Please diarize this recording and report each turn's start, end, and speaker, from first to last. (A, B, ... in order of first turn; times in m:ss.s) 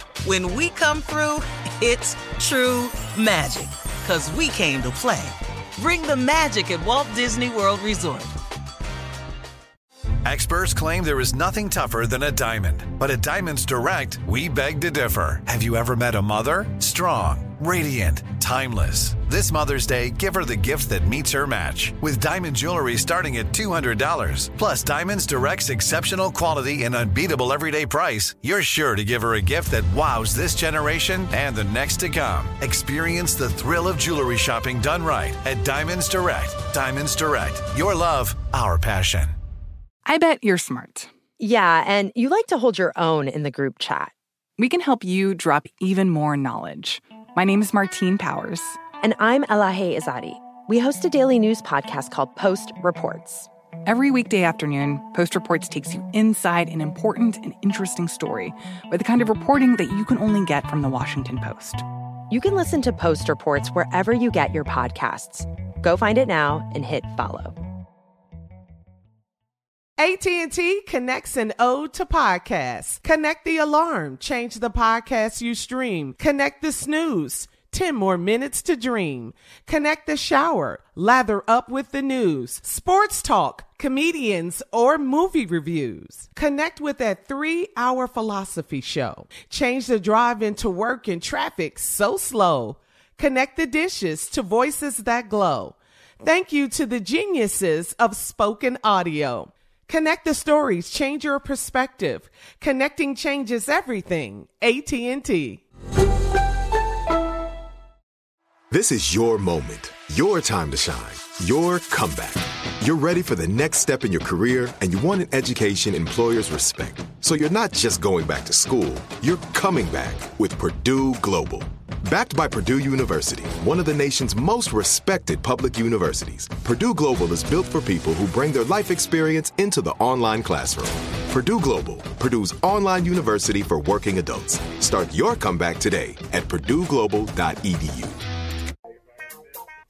0:00.2-0:08.3 A
0:10.2-0:39.3 B
0:40.0-0:41.1 C
0:41.4-0:44.1 D
0:44.6-0:48.8 C
0:49.0-0:53.5 D
0:53.9-1:01.8 C
1:02.3-1:07.6 D
1:10.0-1:45.6 E
1:48.7-2:18.2 F